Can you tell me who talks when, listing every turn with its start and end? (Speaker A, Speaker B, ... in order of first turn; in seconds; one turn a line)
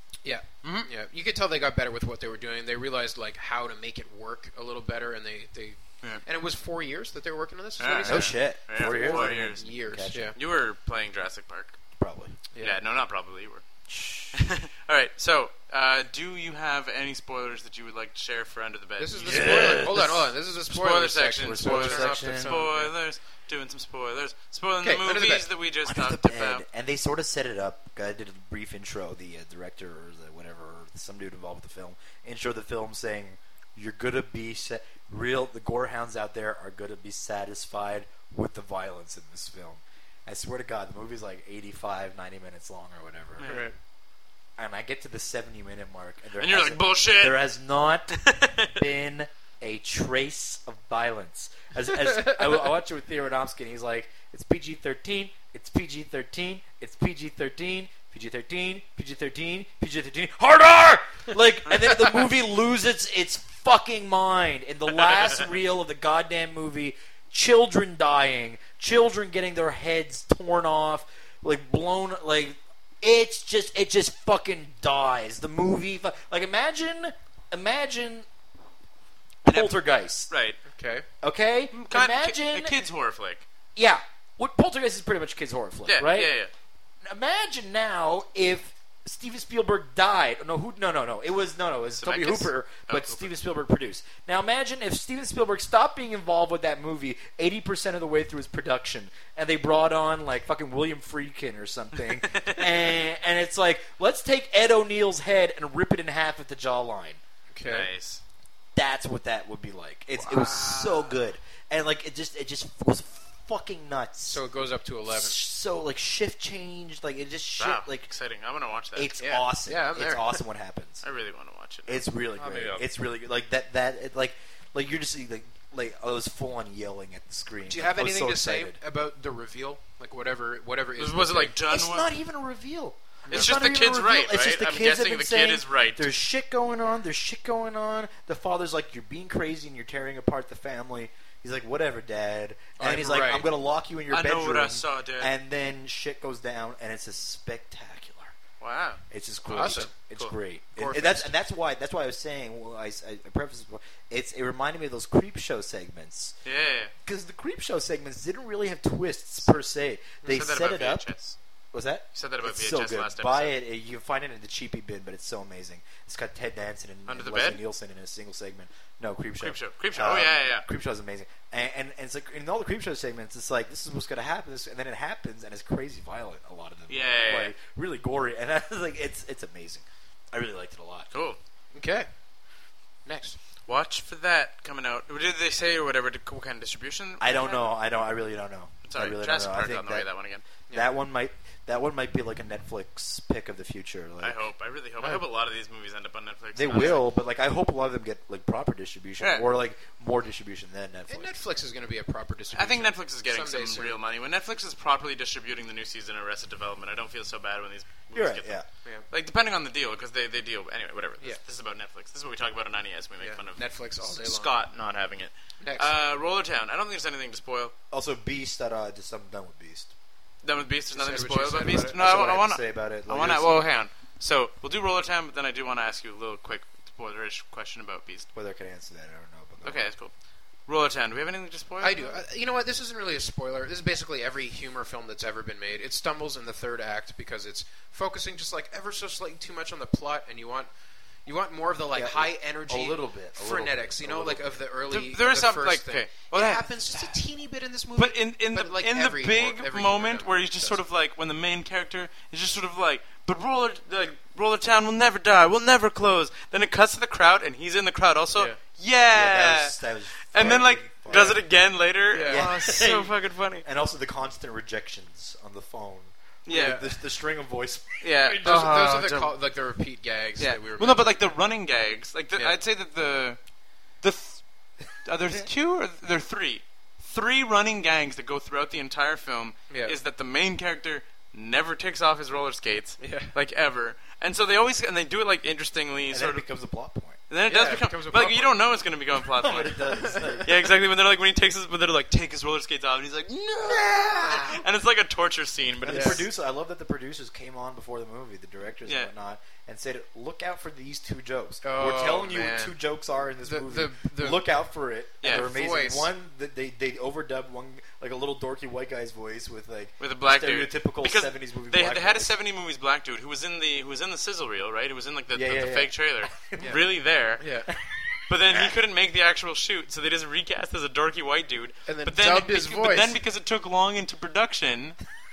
Speaker A: 0.2-10.4
Speaker B: 0.6-0.9
Speaker B: 7.8-11.8
Speaker C: 8.0-10.3
Speaker C: 12.0-12.3
Speaker A: 12.5-12.8
Speaker B: 12.6-13.6
Speaker C: 13.9-14.4
Speaker B: 14.3-20.1
Speaker A: 19.0-22.9
Speaker C: 19.2-20.3
Speaker B: 20.7-26.6
Speaker C: 21.4-22.6
Speaker A: 24.8-25.5
Speaker C: 25.8-43.6
Speaker B: 43.4-43.7
Speaker A: 43.4-43.7
Speaker C: 44.6-78.2
Speaker B: 46.4-47.5
Speaker B: 48.1-48.8
Speaker C: 79.4-80.3
Speaker B: 79.4-80.6
Speaker A: 80.7-81.0
Speaker C: 81.2-82.8
Speaker B: 81.7-83.4
Speaker C: 83.8-86.3
Speaker B: 85.9-86.5
Speaker C: 87.0-107.2
Speaker B: 92.0-93.3
Speaker B: 102.2-102.7
Speaker A: 107.5-107.9
Speaker B: 107.6-108.2
Speaker C: 108.7-114.4
Speaker A: 110.2-111.2
Speaker A: 114.2-115.4
Speaker C: 115.1-118.1
Speaker B: 117.6-119.3
Speaker C: 118.9-121.0
Speaker A: 119.2-120.4
Speaker B: 121.0-122.8
Speaker C: 121.9-128.8
Speaker A: 127.7-131.5
Speaker B: 131.0-132.1
Speaker C: 131.7-148.3
Speaker A: 133.2-133.5
Speaker B: 133.3-136.1
Speaker A: 142.8-143.5
Speaker B: 144.1-145.3
Speaker B: 148.6-149.0
Speaker C: 149.1-156.3
Speaker A: 149.5-149.9
Speaker B: 150.0-150.3
Speaker A: 150.8-151.2
Speaker B: 156.4-156.9
Speaker C: 157.0-161.1
Speaker B: 160.3-161.3
Speaker C: 161.7-181.1
Speaker B: 162.1-163.6
Speaker B: 167.1-167.6
Speaker B: 169.4-170.7
Speaker B: 176.9-177.6
Speaker B: 181.1-181.4
Speaker A: 181.7-182.1
Speaker A: 183.0-183.4
Speaker B: 183.7-187.6
Speaker C: 187.2-190.1
Speaker B: 188.8-190.4
Speaker C: 190.7-194.4
Speaker B: 194.2-197.0
Speaker C: 196.5-201.3
Speaker B: 199.2-199.5
Speaker A: 201.1-204.0
Speaker B: 202.5-208.6
Speaker C: 208.1-208.7
Speaker B: 209.1-217.7
Speaker A: 213.2-214.5
Speaker A: 215.6-215.9
Speaker C: 217.9-219.9
Speaker B: 220.4-228.3
Speaker A: 220.9-222.0
Speaker C: 221.7-223.6
Speaker C: 228.3-229.8
Speaker B: 229.6-230.1
Speaker B: 230.7-232.2
Speaker A: 231.8-240.7
Speaker A: 241.2-250.8
Speaker C: 241.9-244.6
Speaker B: 244.9-247.2
Speaker B: 248.0-259.8
Speaker C: 259.1-261.4
Speaker B: 260.3-263.6
Speaker A: 261.1-261.4
Speaker A: 262.1-262.5
Speaker C: 262.2-268.7
Speaker B: 266.4-266.9
Speaker B: 268.0-269.4
Speaker A: 268.4-271.1
Speaker B: 270.4-273.4
Speaker B: 274.0-286.4
Speaker A: 279.7-279.9
Speaker A: 283.0-283.3
Speaker C: 286.1-287.2
Speaker B: 287.3-296.3
Speaker A: 287.5-288.6
Speaker C: 289.4-290.5
Speaker A: 290.0-290.4
Speaker C: 293.6-294.6
Speaker C: 295.8-312.3
Speaker A: 295.9-296.2
Speaker A: 301.6-302.8
Speaker A: 303.4-304.4
Speaker B: 305.2-305.5
Speaker A: 305.2-306.1
Speaker B: 310.0-317.6
Speaker C: 315.3-316.8
Speaker A: 317.4-317.7
Speaker B: 318.3-325.0
Speaker C: 318.4-318.7
Speaker A: 321.9-323.2